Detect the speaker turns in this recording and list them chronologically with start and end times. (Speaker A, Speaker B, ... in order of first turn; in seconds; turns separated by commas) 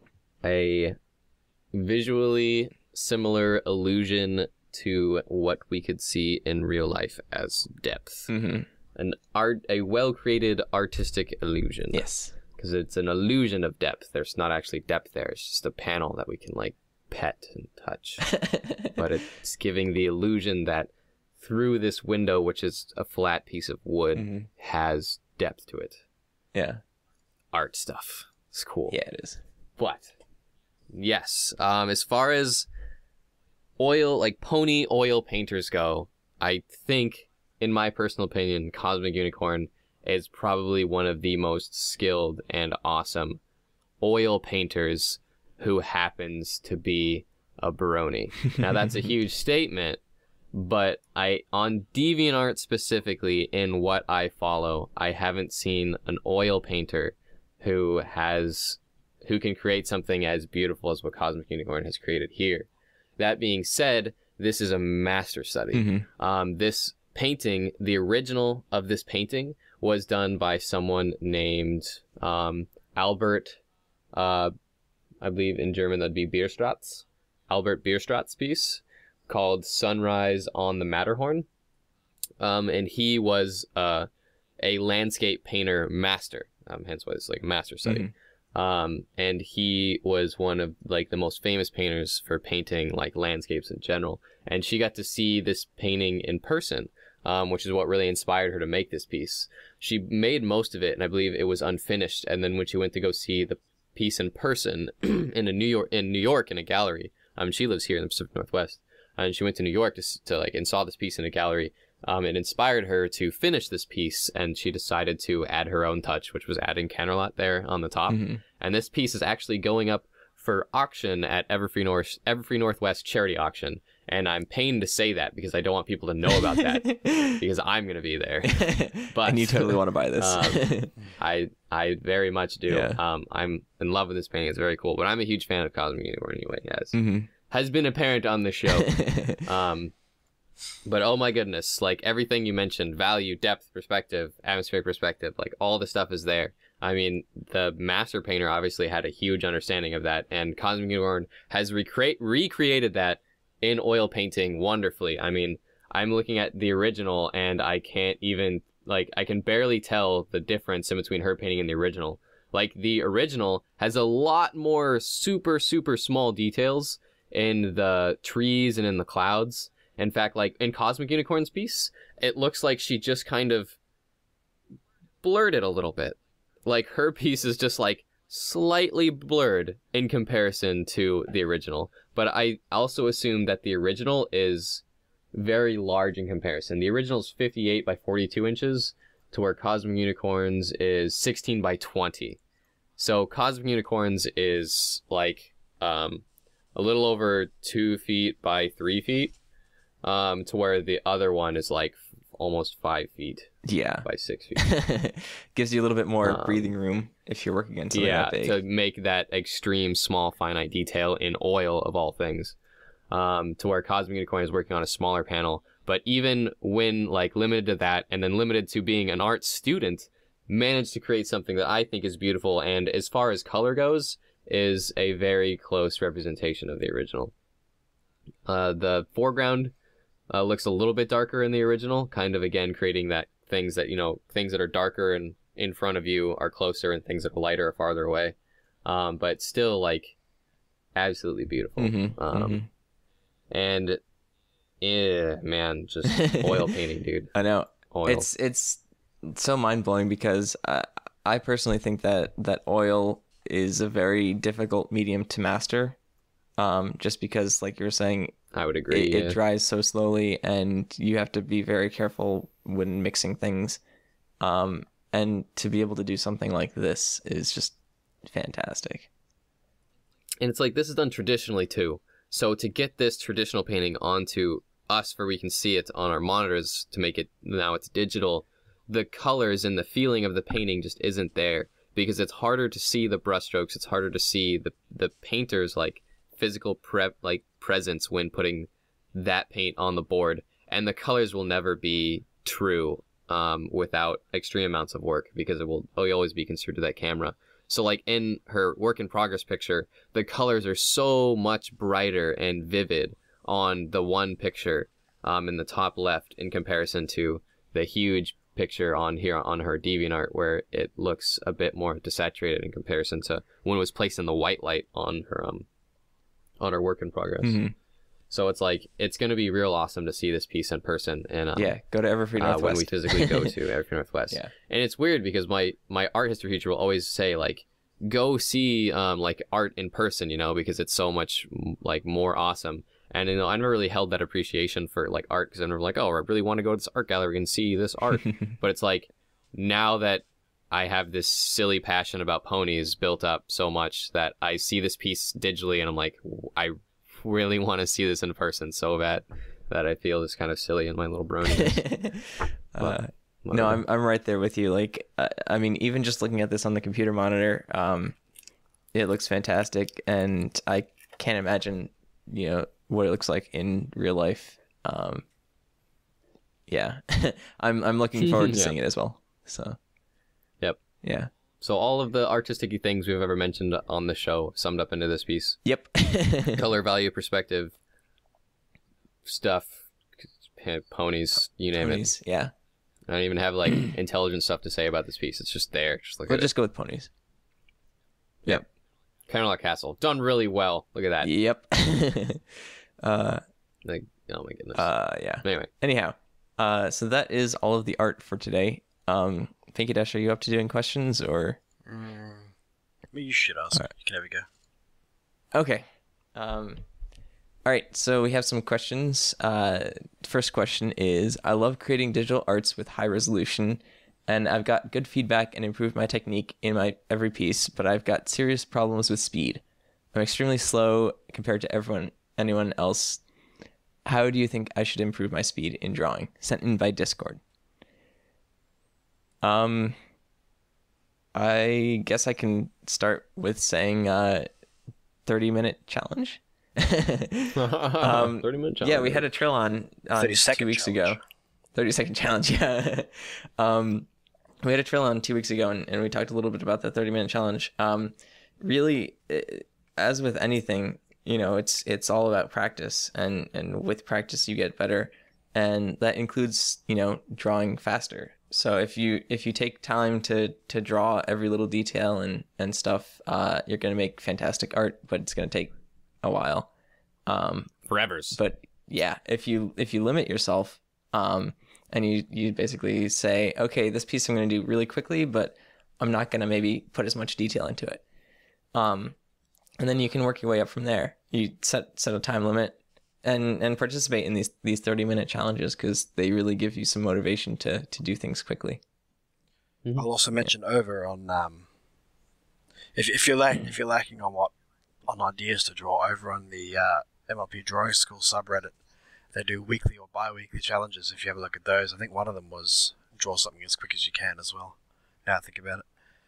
Speaker A: 0.4-1.0, Speaker A: 1.7-8.3, Speaker B: 8.3-8.7, Speaker A: 8.9-18.3, Speaker B: 11.9-12.3, Speaker B: 18.3-19.0, Speaker A: 18.9-26.0, Speaker B: 24.1-24.5, Speaker B: 26.5-26.8, Speaker A: 27.5-29.0, Speaker B: 28.9-29.4, Speaker A: 29.8-30.1, Speaker A: 30.9-32.7, Speaker A: 33.8-43.4, Speaker A: 44.0-50.0, Speaker A: 50.5-73.6, Speaker B: 65.7-66.0, Speaker A: 74.1-74.5, Speaker A: 75.2-81.5, Speaker A: 82.4-84.1, Speaker A: 84.6-139.9, Speaker B: 87.8-88.1, Speaker B: 118.1-118.4, Speaker B: 126.4-127.4, Speaker B: 128.5-130.9, Speaker B: 132.7-133.0, Speaker B: 136.9-137.3, Speaker B: 138.7-139.4, Speaker A: 140.8-173.8, Speaker A: 175.2-192.4, Speaker A: 193.0-196.2, Speaker A: 196.7-199.3, Speaker A: 200.0-204.6, Speaker B: 203.6-208.6, Speaker A: 206.2-206.7, Speaker A: 207.9-212.6, Speaker A: 213.1-227.3, Speaker A: 228.5-229.7, Speaker A: 230.3-240.1, Speaker A: 240.9-242.6, Speaker B: 241.8-242.7, Speaker A: 243.5-244.0, Speaker A: 244.8-247.3, Speaker B: 246.1-246.7, Speaker B: 247.3-256.0, Speaker A: 247.9-248.3, Speaker B: 256.6-258.3, Speaker A: 258.5-259.4, Speaker B: 258.9-263.8, Speaker B: 264.4-269.1, Speaker A: 270.4-315.6, Speaker A: 316.6-317.6, Speaker B: 317.4-317.7, Speaker A: 318.3-321.8, Speaker B: 321.5-323.5, Speaker A: 322.4-351.9, Speaker B: 351.5-358.1, Speaker A: 352.8-353.8, Speaker B: 358.9-365.2, Speaker B: 366.7-369.8, Speaker A: 368.2-368.7, Speaker B: 371.0-371.3, Speaker A: 371.6-375.6, Speaker B: 375.6-376.6, Speaker A: 376.5-377.7, Speaker A: 379.2-379.9, Speaker A: 380.5-382.1, Speaker B: 381.8-382.5, Speaker A: 383.1-386.5, Speaker B: 386.3-387.1, Speaker A: 389.3-391.3, Speaker B: 391.2-393.4, Speaker A: 393.8-394.9, Speaker B: 394.7-401.6, Speaker A: 395.4-395.7, Speaker C: 401.9-402.5, Speaker C: 403.1-404.4, Speaker B: 405.5-406.8, Speaker B: 407.6-423.2, Speaker B: 424.1-427.4, Speaker B: 429.4-429.9, Speaker B: 431.3-434.5, Speaker B: 435.2-441.2, Speaker A: 437.5-439.3, Speaker C: 440.1-441.2, Speaker B: 441.7-444.1, Speaker B: 444.6-466.7, Speaker B: 467.3-467.7, Speaker A: 467.9-468.4, Speaker B: 468.3-478.0, Speaker B: 478.7-479.1, Speaker B: 479.8-488.8, Speaker C: 489.9-491.6, Speaker C: 492.9-494.5, Speaker C: 495.1-498.8, Speaker C: 499.3-505.8